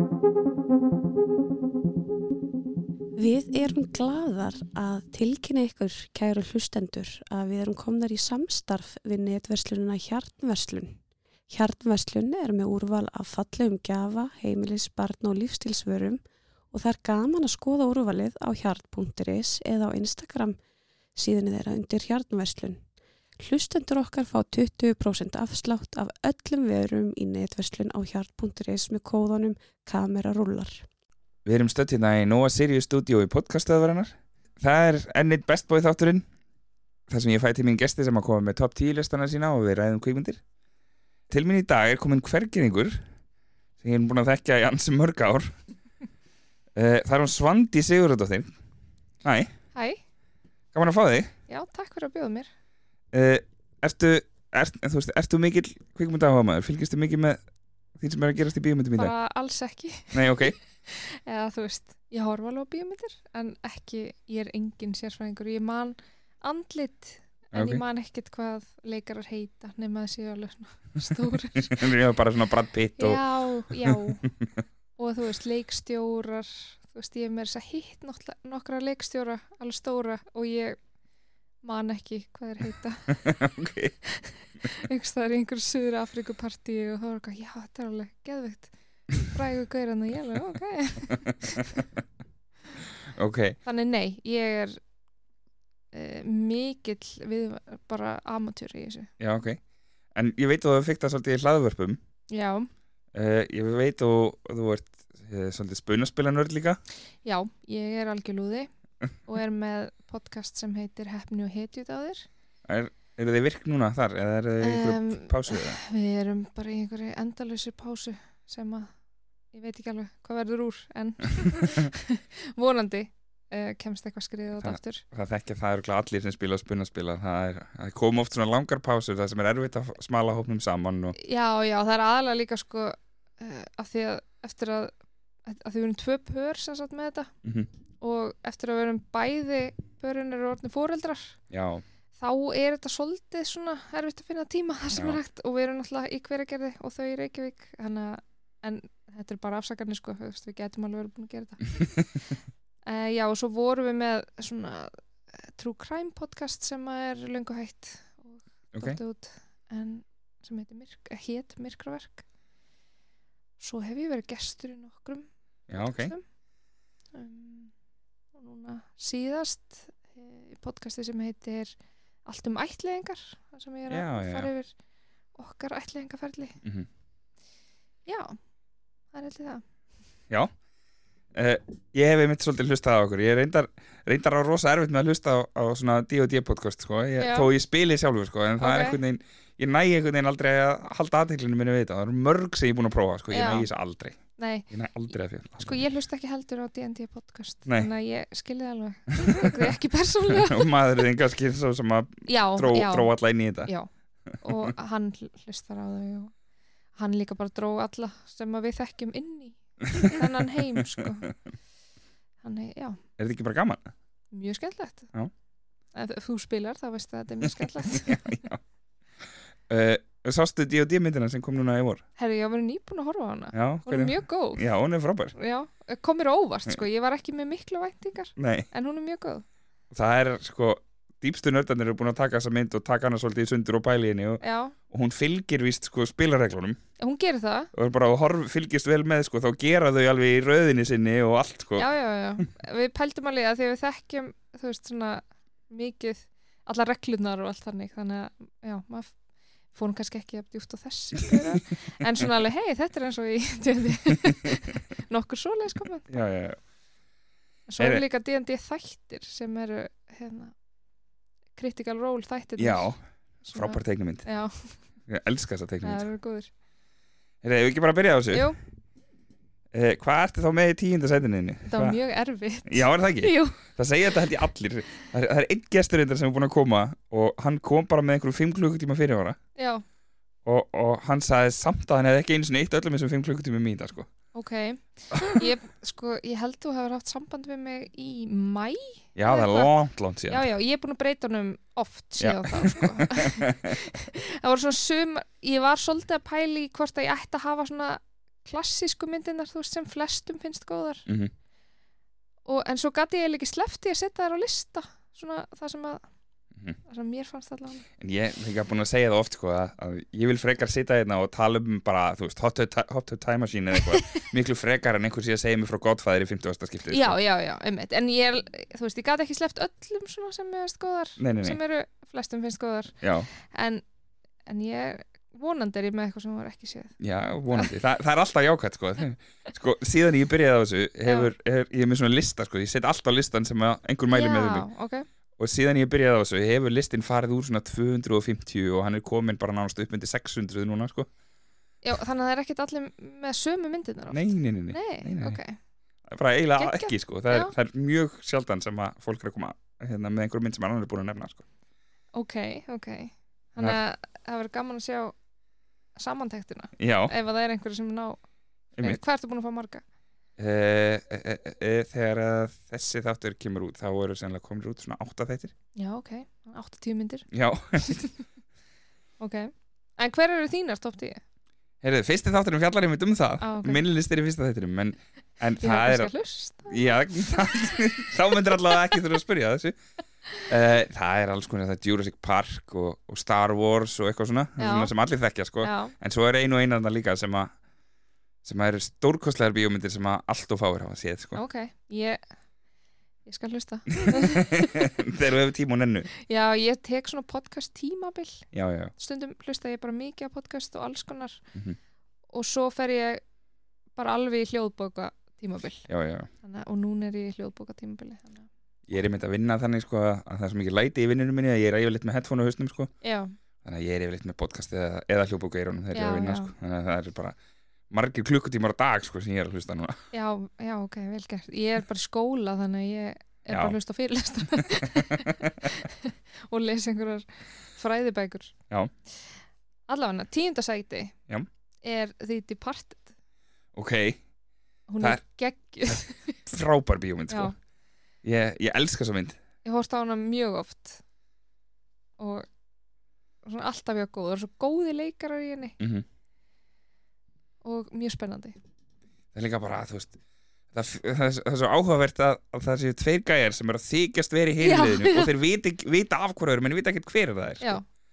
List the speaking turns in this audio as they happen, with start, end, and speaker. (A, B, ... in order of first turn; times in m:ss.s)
0:03.2-0:11.0 A
0:11.5-0:16.2 A
0:16.7-0:20.6 A
0:21.1-0:22.8 A
0:23.4-0:30.8 A
0:31.4-0:36.2 B
0:37.1-0:40.4 B
0:41.3-0:43.0 B
0:43.8-0:45.6 B
0:46.8-0:48.5 B
0:49.2-0:49.5 B
0:49.7-0:50.0 C
0:50.7-0:51.3 B
0:51.5-0:52.5 C
0:53.1-0:57.4 B
0:58.0-0:59.1 B
0:59.0-1:11.9 C
1:00.1-1:00.5 B
1:07.5-1:07.8 B
1:11.6-1:13.2 B
1:13.0-1:14.2 C
1:13.8-1:14.5 B
1:15.0-1:20.8 C
1:21.6-1:23.2 C
1:23.1-1:23.9 B
1:24.0-1:31.7 C
1:31.1-1:31.8 B
1:33.1-1:33.6 B
1:33.6-1:34.8 C
1:35.9-1:39.1 C
1:39.2-1:39.6 B
1:40.1-1:42.0 B
1:42.3-1:42.7 C
1:43.1-1:46.8 B
1:47.2-1:48.7 C
1:49.2-1:52.3 C
1:52.7-1:55.8 B
1:54.6-1:58.9 C
1:59.5-2:05.0 C
2:04.6-2:11.2 B
2:11.2-2:14.9 C
2:15.4-2:17.3 C
2:17.4-2:17.7 B
2:18.0-2:21.4 C
2:21.5-2:21.8 B
2:22.2-2:32.0 C
2:24.9-2:25.2 B
2:31.8-2:32.1 B
2:32.8-2:42.2 C
2:38.7-2:39.0 B
2:43.6-2:46.2 C
2:45.7-2:46.1 B
2:47.1-2:47.7 C
2:48.3-2:51.7 C
2:52.2-2:54.7 C
2:53.9-2:54.5 B
2:55.4-2:56.6 C
2:56.6-2:56.9 B
2:58.0-2:58.4 C
2:59.1-2:59.6 C
3:01.3-3:14.2 B
3:07.2-3:07.5 C
3:08.6-3:09.0 C
3:13.3-3:13.7 C
3:14.4-3:14.7 C
3:14.7-3:15.8 B
3:15.6-3:21.0 C
3:19.1-3:19.6 B
3:20.4-3:23.7 B
3:22.3-3:23.1 C
3:24.4-3:26.3 C
3:27.0-3:31.3 C
3:32.4-3:33.0 C
3:33.2-3:33.9 B
3:34.3-3:35.1 C
3:35.9-3:38.3 C
3:37.8-3:38.6 B
3:39.7-3:42.0 B
3:42.2-3:44.6 C
3:43.5-3:45.3 B
3:45.4-3:49.4 C
3:48.4-3:48.7 B
3:49.9-3:56.8 B
3:54.4-3:54.7 C
3:57.0-3:57.7 C
3:57.7-4:01.9 B
4:01.8-4:09.1 C
4:09.7-4:16.1 C
4:14.1-4:14.4 B
4:16.1-4:16.6 B
4:17.7-4:20.5 C
4:21.6-4:22.9 C
4:22.6-4:23.0 B
4:23.4-4:24.8 C
4:23.5-4:24.2 B
4:25.1-4:26.0 B
4:25.8-4:26.5 C
4:27.4-4:28.5 B
4:29.7-4:32.0 B
4:31.7-4:33.6 C
4:32.6-4:39.4 B
4:39.6-4:39.8 C
4:40.4-4:44.1 B
4:44.3-4:49.7 C
4:45.1-4:45.4 B
4:49.2-4:50.4 B
4:50.3-5:01.0 C
4:52.2-4:53.8 B
5:01.1-5:01.3 B
5:02.4-5:06.0 C
5:06.8-5:07.8 C
5:08.0-5:17.2 B
5:13.8-5:14.2 C
5:16.9-5:23.8 C
5:21.2-5:21.6 B
5:23.0-5:23.3 B
5:24.4-5:27.0 C
5:27.0-5:34.7 B
5:34.1-5:35.0 C
5:35.4-5:41.1 B
5:41.8-5:45.6 C
5:44.1-5:45.4 B
5:46.1-5:51.4 B
5:46.6-5:47.5 C
5:52.1-5:55.1 C
5:56.0-5:58.2 C
5:56.8-5:57.1 B
5:58.8-5:59.8 C
6:00.4-6:05.5 B
6:05.8-6:07.3 C
6:07.3-6:08.0 B
6:07.8-6:08.1 C
6:09.2-6:11.2 C
6:11.8-6:16.1 B
6:13.4-6:13.8 C
6:15.6-6:17.5 C
6:16.7-6:19.8 B
6:20.4-6:27.5 B
6:24.6-6:24.9 C
6:25.6-6:25.9 C
6:28.4-6:31.4 B
6:31.3-6:32.2 C
6:33.2-6:34.9 C
6:33.9-6:36.1 B
6:36.2-6:41.4 C
6:38.5-6:38.9 B
6:42.3-6:43.2 C
6:44.0-6:45.9 C
6:45.9-6:46.3 B
6:46.4-6:48.5 C
6:48.9-6:52.9 B
6:53.0-6:53.3 C
6:53.6-6:57.4 B
6:55.9-6:56.5 C
6:57.9-7:00.0 B
7:00.1-7:08.5 C
7:03.5-7:03.8 B
7:04.7-7:05.6 B
7:09.9-7:11.1 C
7:11.8-7:13.1 C
7:13.7-7:14.2 B
7:14.9-7:16.4 C
7:15.8-7:17.5 B
7:18.2-7:19.4 B
7:19.6-7:21.0 C
7:22.2-7:22.4 C
7:23.4-7:25.8 C
7:25.8-7:26.0 B
7:27.6-7:28.6 C
7:29.3-7:30.1 B
7:30.7-7:37.8 B
7:34.6-7:35.3 C